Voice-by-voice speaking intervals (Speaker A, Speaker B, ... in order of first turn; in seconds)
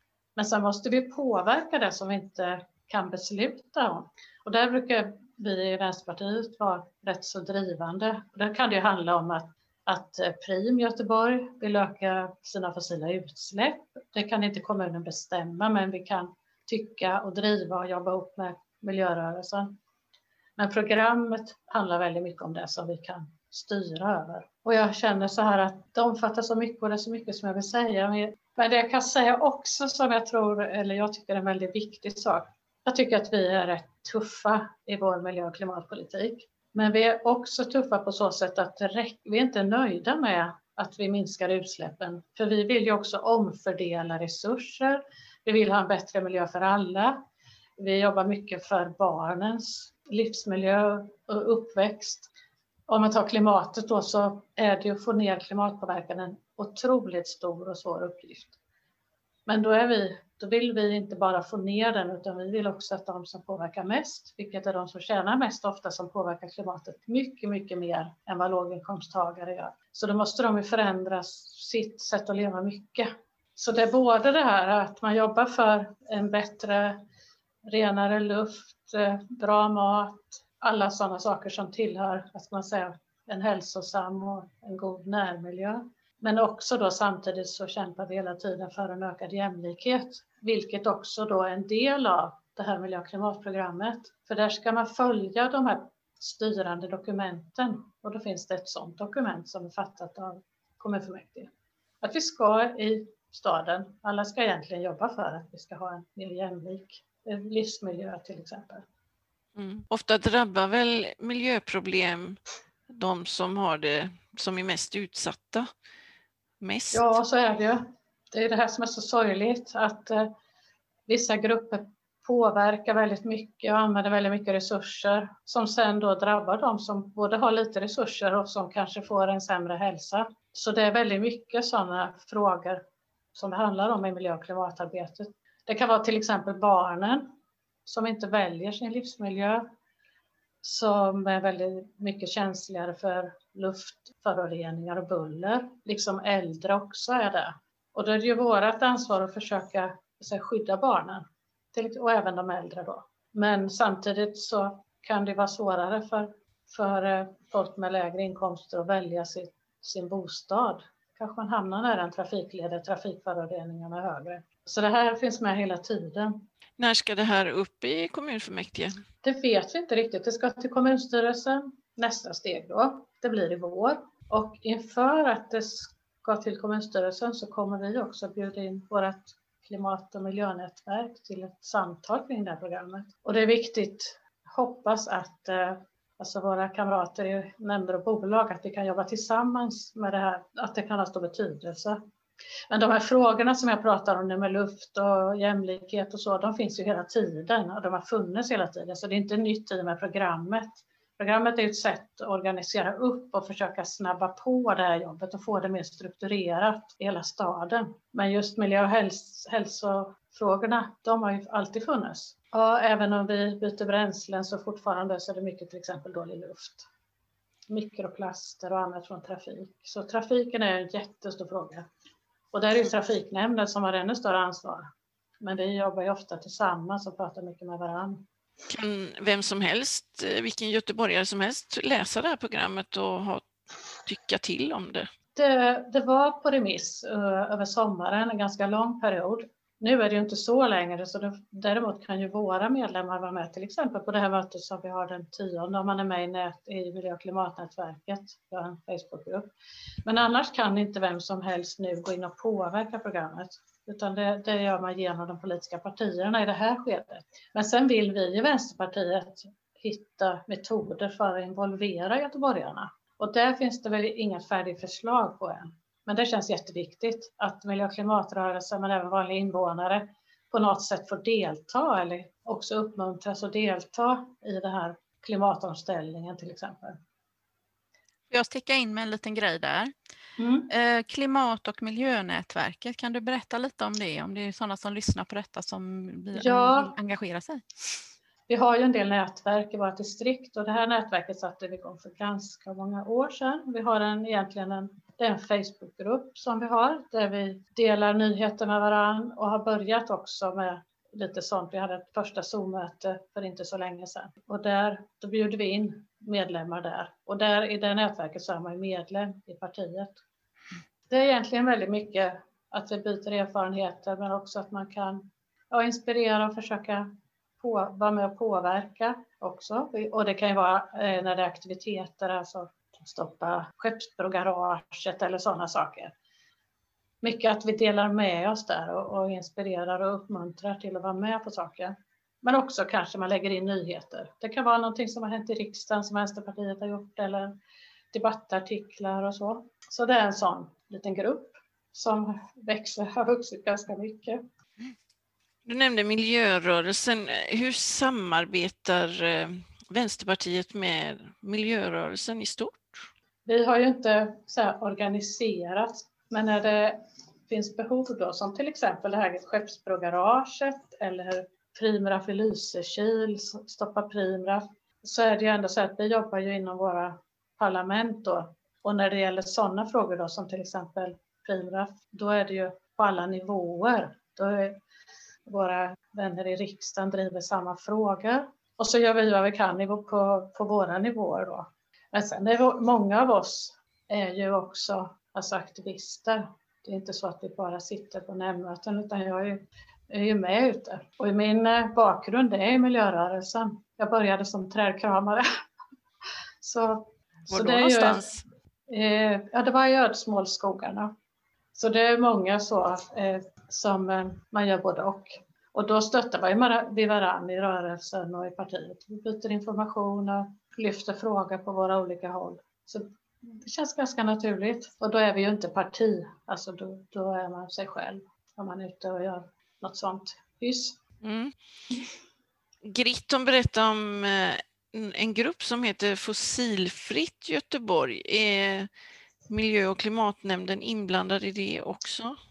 Speaker A: 0.4-19.7, 20.6-47.2, 47.8-52.3, 52.9-58.6, 59.5-77.0, 77.7-101.5, 102.0-108.8, 116.9-120.3, 121.1-132.8, 133.3-137.3, 137.9-139.7, 140.6-166.4, 169.2-192.0, 192.7-216.9, 217.7-221.9, 222.5-224.9, 225.4-228.2, 235.3-249.5, 250.1-277.0, 280.4-280.7, 286.4-286.9, 288.5-310.2, 311.1-326.1, 327.2-337.5, 338.1-344.4, 353.5-374.8, 375.5-395.4, 396.6-398.3, 398.9-401.1, 401.8-421.0
Speaker B: 109.6-115.7, 116.6-117.2, 166.8-169.0, 228.7-233.4, 234.1-235.1, 345.7-353.1, 397.5-398.4, 421.2-421.5, 422.8-428.9, 429.5-432.4
Speaker C: 278.3-279.9, 280.7-288.0